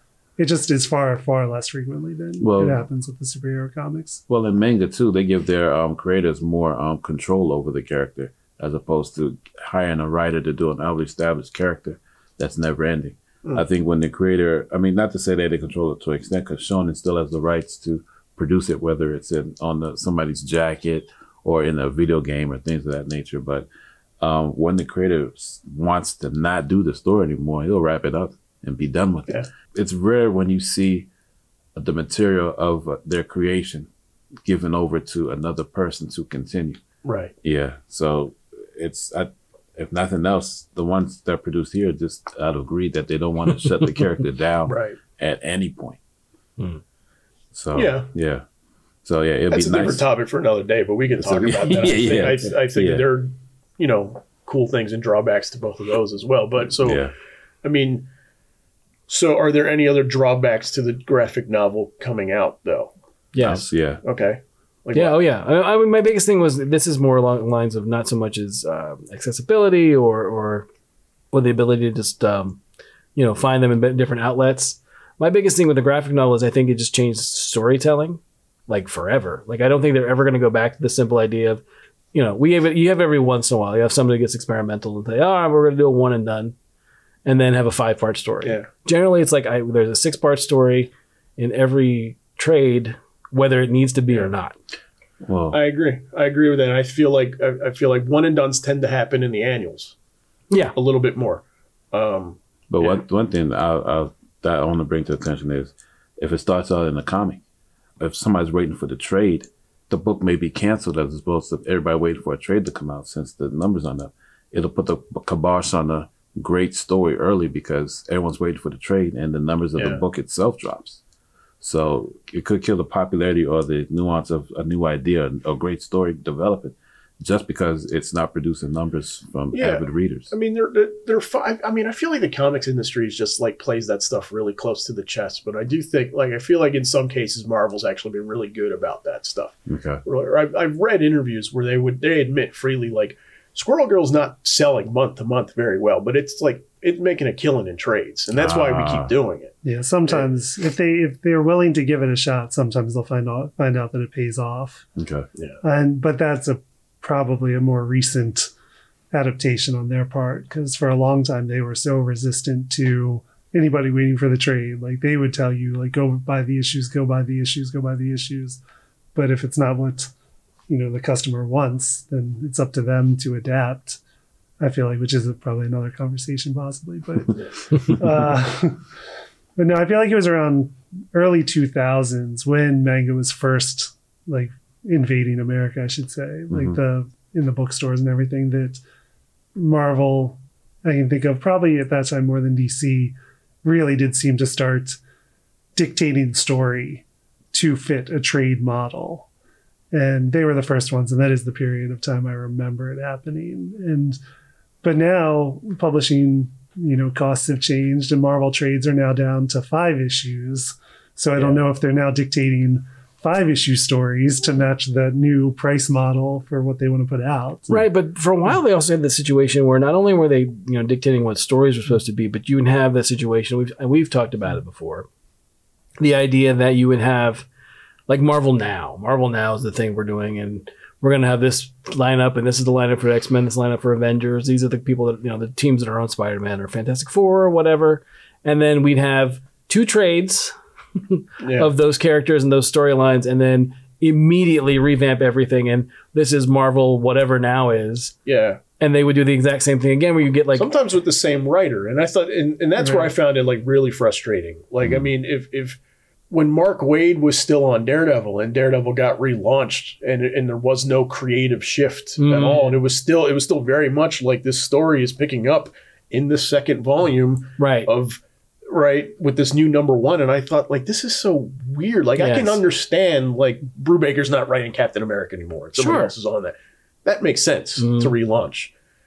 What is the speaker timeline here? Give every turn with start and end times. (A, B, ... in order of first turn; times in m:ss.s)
0:00.4-0:04.2 A
0:02.4-0:02.8 B
0:04.3-0:23.7 B
0:24.2-0:31.1 B
0:31.8-0:33.9 B
0:34.4-0:36.8 B
0:37.0-0:37.3 C
0:37.4-0:46.0 B
0:44.7-0:45.0 C
0:47.5-0:48.4 B
0:47.7-0:48.1 C
0:49.0-0:50.0 B
0:49.5-0:57.1 C
0:51.2-0:53.0 B
0:56.8-0:57.1 B
0:57.6-0:58.1 C
0:59.1-1:02.9 C
1:03.3-1:03.6 D
1:03.4-1:04.0 B
1:04.0-1:05.2 C
1:04.9-1:10.7 D
1:11.3-1:12.6 D
1:13.2-1:21.6 D
1:22.1-1:26.6 D
1:27.2-1:34.6 D
1:28.4-1:28.7 C
1:35.2-1:35.6 B
1:35.5-1:40.0 C
1:40.5-1:40.8 D
1:40.8-1:43.0 C
1:42.7-1:47.4 B
1:48.0-2:01.0 B
1:59.8-2:00.0 C
2:01.6-2:10.3 B
2:09.5-2:29.6 C
2:19.7-2:20.0 B
2:28.3-2:29.1 B
2:29.6-2:34.9 A
2:35.0-2:35.3 B
2:35.6-2:38.5 A
2:39.1-2:48.6 A
2:49.1-2:50.1 A
2:50.7-2:54.0 A
2:54.6-2:58.8 A
2:59.6-3:08.8 A
3:06.5-3:06.8 B
3:09.6-3:15.0 A
3:15.8-3:19.3 A
3:19.9-3:24.2 A
3:24.8-3:37.7 A
3:37.7-3:45.1 D
3:46.0-3:47.5 D
3:48.1-4:08.2 D
4:01.4-4:01.7 C
4:08.3-4:08.6 C
4:08.8-4:10.7 D
4:10.6-4:15.8 C
4:12.8-4:13.1 A
4:16.3-4:38.7 C
4:22.2-4:22.8 D
4:27.6-4:27.9 D
4:32.2-4:32.6 D
4:35.8-4:36.1 D
4:37.8-4:38.1 D